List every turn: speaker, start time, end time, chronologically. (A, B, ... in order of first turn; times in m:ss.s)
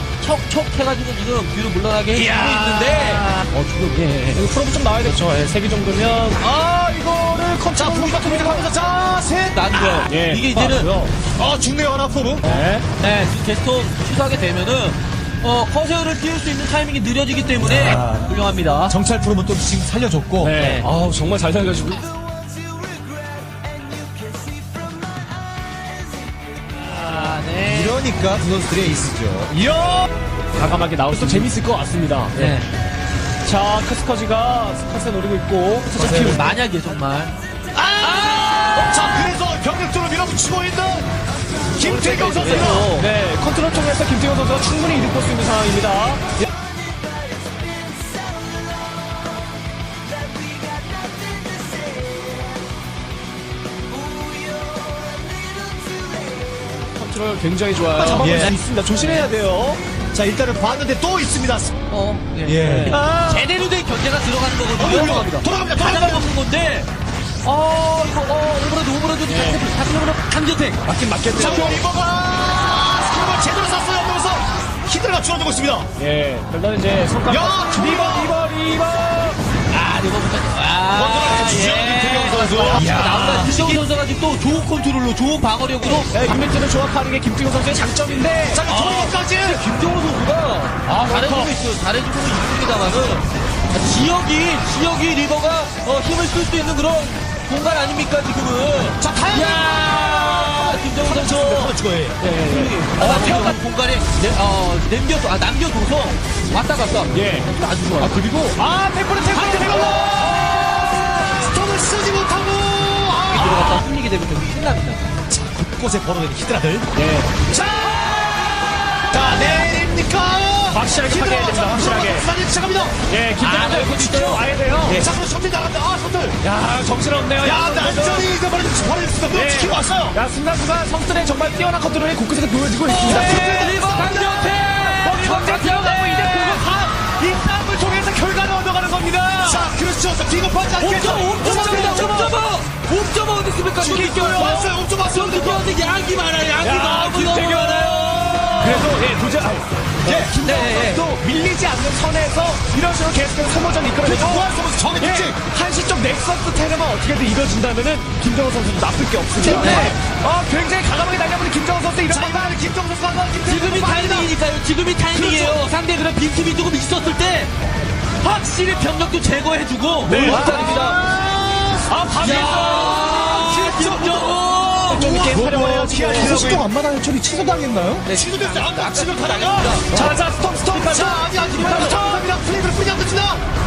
0:00.1-0:04.4 A
0:02.2-0:03.4 B
0:04.3-0:08.7 B
0:07.8-0:10.0 C
0:09.5-0:10.9 A
0:10.0-0:11.1 B
0:11.3-0:12.6 C
0:12.4-0:12.9 B
0:13.0-0:19.0 A
0:17.6-0:18.3 C
0:18.9-0:20.6 C
0:20.4-0:22.0 B
0:20.5-0:20.9 A
0:26.7-0:28.0 A
0:27.0-0:27.3 B
0:27.6-0:29.6 C
0:29.5-0:32.6 B
0:31.1-0:31.5 A
0:32.3-0:32.7 A
0:33.4-0:36.5 B
0:35.9-0:36.6 C
0:36.0-0:37.4 A
0:37.7-0:41.1 C
0:38.0-0:39.3 A
0:41.8-0:42.9 C
0:41.8-0:46.2 B
0:42.3-0:43.1 A
0:57.0-0:59.8 B
0:58.0-0:58.6 C
0:59.0-0:59.2 A
1:00.1-1:01.8 C
1:01.9-1:06.9 A
1:02.4-1:03.0 C
1:02.6-1:03.5 B
1:04.8-1:06.3 C
1:05.0-1:05.4 B
1:07.4-1:10.8 A
1:09.3-1:09.6 B
1:10.9-1:11.8 B
1:11.3-1:15.9 C
1:11.4-1:11.7 A
1:16.0-1:19.4 B
1:17.3-1:18.4 C
1:19.7-1:26.3 A
1:20.9-1:23.8 C
1:25.9-1:28.6 B
1:28.5-1:29.6 C
1:28.7-1:41.8 A
1:30.9-1:31.5 B
1:39.0-1:42.2 C
1:42.2-1:43.6 B
1:42.3-1:48.2 A
1:47.1-1:50.7 B
1:49.2-1:53.8 C
1:53.3-1:55.1 A
1:55.3-1:56.9 C
1:56.9-1:57.3 B
1:57.5-2:03.0 C
2:00.7-2:02.3 B
2:03.1-2:05.0 B
2:03.4-2:05.0 A
2:04.9-2:06.4 C
2:06.4-2:08.3 B
2:07.4-2:10.2 C
2:09.3-2:13.7 B
2:12.9-2:16.6 A
2:13.0-2:14.4 C
2:14.4-2:19.7 B
2:19.4-2:22.3 C
2:20.8-2:29.0 A
2:21.2-2:22.3 B
2:23.8-2:25.7 C
2:26.6-2:34.5 B
2:30.0-2:30.3 C
2:30.4-2:31.0 A
2:34.0-2:35.4 C
2:35.0-2:42.5 B
2:39.4-2:40.0 C
2:39.4-2:39.9 A
2:42.1-2:44.3 C
2:43.4-2:47.5 A
2:45.2-2:45.5 B
2:48.2-2:51.0 A
2:50.0-2:50.8 B
2:50.2-2:51.9 C
2:51.9-2:53.2 B
2:52.2-2:55.1 A
2:53.2-2:54.3 C
2:54.9-2:56.7 B
2:54.9-3:00.1 C
2:58.0-3:00.1 A
2:59.9-3:02.2 B
3:00.7-3:03.4 C
3:01.2-3:02.2 A